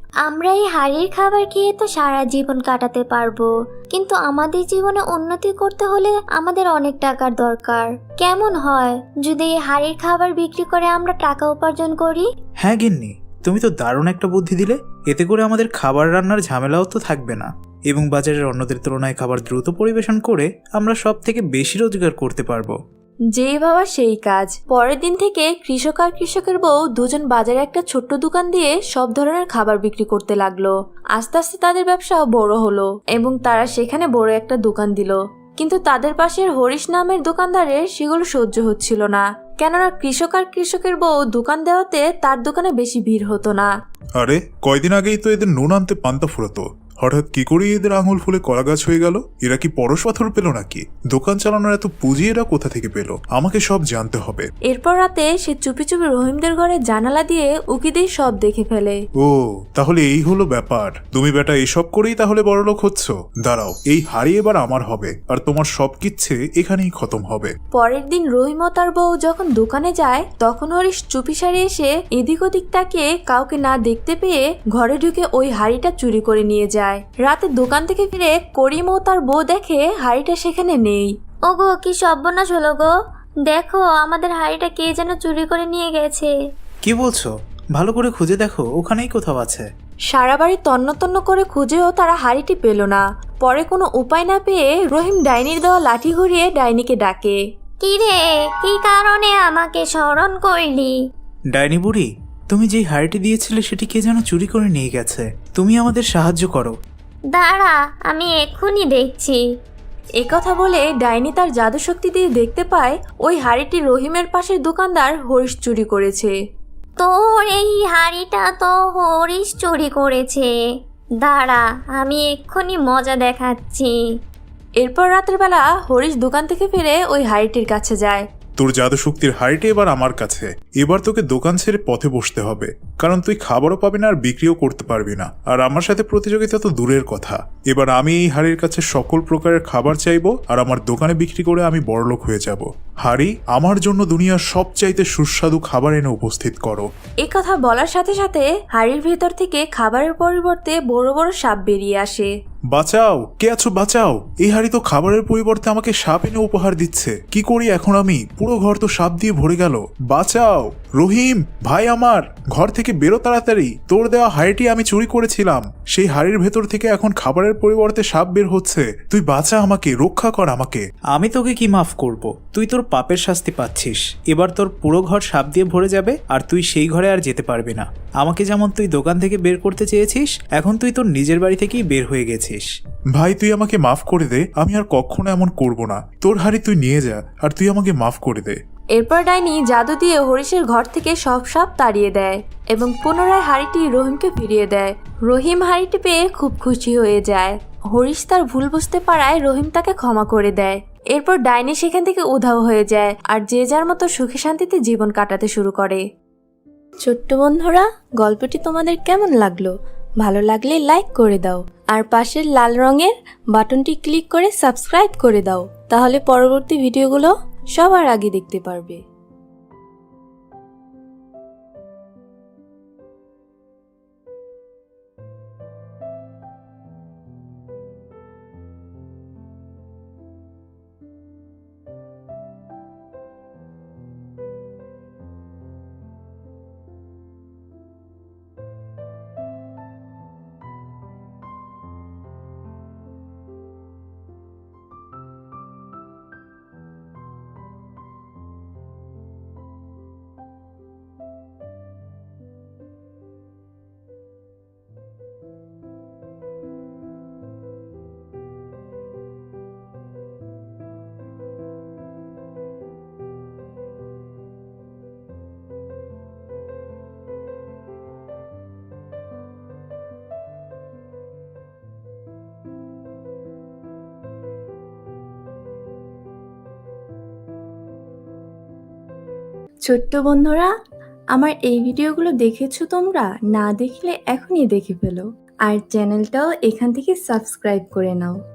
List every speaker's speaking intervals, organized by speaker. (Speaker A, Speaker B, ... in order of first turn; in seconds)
Speaker A: 0.2-12.3, 81.5-82.9, 83.5-86.3, 97.8-100.9, 107.3-109.4, 117.0-120.5, 121.2-124.0
Speaker B: 12.6-22.8, 86.8-89.7, 101.5-106.8, 171.2-182.7
Speaker C: 23.4-43.7, 54.7-59.0, 67.7-81.1, 90.1-97.4, 110.2-116.3, 124.8-128.2, 147.2-152.3, 188.9-206.0, 207.1-219.0, 279.9-280.7, 281.3-288.4
Speaker D: 44.2-54.5, 59.2-67.5, 128.6-146.9, 152.7-171.2, 183.2-188.6